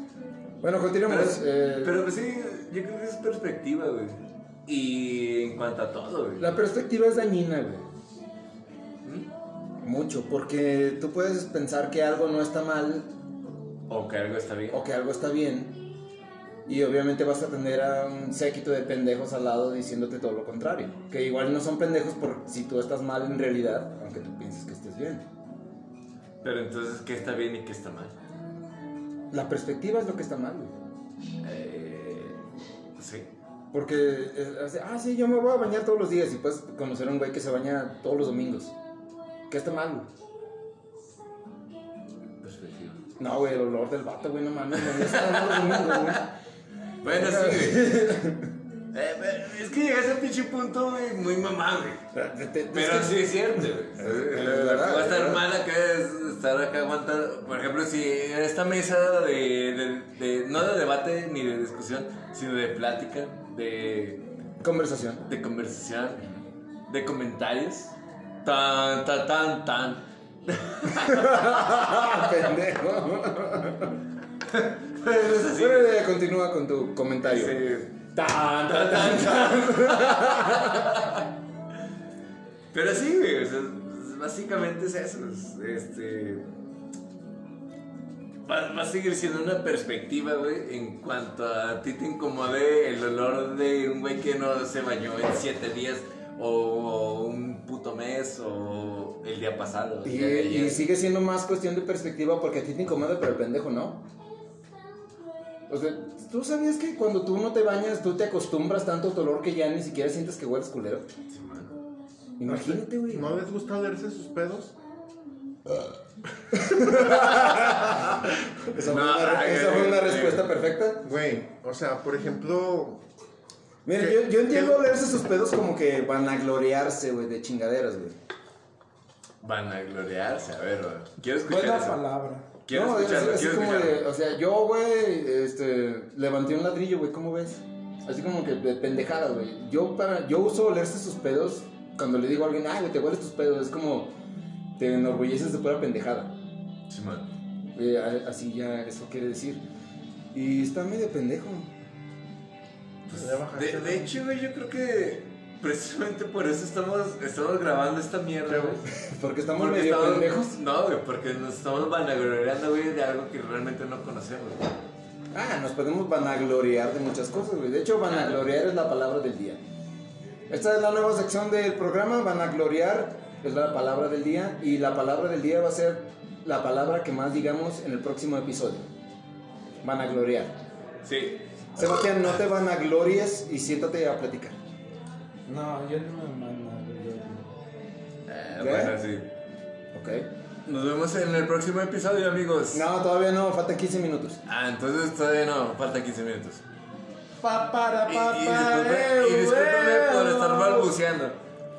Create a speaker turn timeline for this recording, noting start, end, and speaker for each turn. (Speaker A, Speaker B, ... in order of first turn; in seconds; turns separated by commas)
Speaker A: 0.6-2.0, Speaker B: 1.1-6.5, Speaker A: 6.4-7.8, Speaker A: 9.8-13.1, Speaker B: 13.9-14.8, Speaker A: 14.7-15.9, Speaker A: 16.6-25.2, Speaker B: 26.4-28.1, Speaker A: 29.3-30.7, Speaker B: 31.4-32.4, Speaker B: 33.0-33.3, Speaker A: 33.7-38.7, Speaker A: 39.5-40.1, Speaker B: 42.4-43.0, Speaker A: 43.2-46.2, Speaker B: 44.8-46.3, Speaker B: 47.0-47.9, Speaker A: 47.0-48.5, Speaker B: 48.9-52.0, Speaker A: 52.1-55.4, Speaker B: 52.7-64.2, Speaker A: 64.6-65.2, Speaker B: 65.3-67.9, Speaker B: 68.4-72.0, Speaker A: 71.0-73.9, Speaker B: 74.5-76.0, Speaker A: 75.5-77.5, Speaker B: 77.2-78.1, Speaker A: 78.2-80.9, Speaker B: 78.6-81.2, Speaker B: 82.7-86.5, Speaker B: 88.5-100.9, Speaker A: 100.0-104.0, Speaker A: 105.7-111.1, Speaker B: 111.3-111.7, Speaker A: 112.4-113.4, Speaker C: 112.4-114.7, Speaker A: 116.5-121.0, Speaker C: 116.5-117.5, Speaker B: 118.8-120.5, Speaker C: 121.0-123.0, Speaker A: 123.8-128.2, Speaker C: 124.0-124.9, Speaker B: 129.4-132.0, Speaker D: 131.5-132.5, Speaker B: 132.7-134.0, Speaker A: 132.7-144.2, Speaker A: 144.8-146.3, Speaker B: 146.9-147.3, Speaker A: 147.7-149.6, Speaker A: 150.3-151.7, Speaker B: 153.1-158.8, Speaker C: 153.1-154.1, Speaker C: 158.5-158.8, Speaker A: 158.9-160.6, Speaker B: 159.5-164.7, Speaker A: 165.3-169.6, Speaker B: 168.1-168.4, Speaker A: 170.5-178.9, Speaker A: 179.8-180.6, Speaker B: 181.0-182.1, Speaker A: 181.8-184.6, Speaker D: 185.5-187.5, Speaker B: 188.2-189.3, Speaker A: 188.6-188.9, Speaker A: 189.9-190.3, Speaker B: 190.7-192.8, Speaker A: 192.7-194.4, Speaker B: 194.4-196.6, Speaker D: 197.4-200.9, Speaker B: 198.1-201.4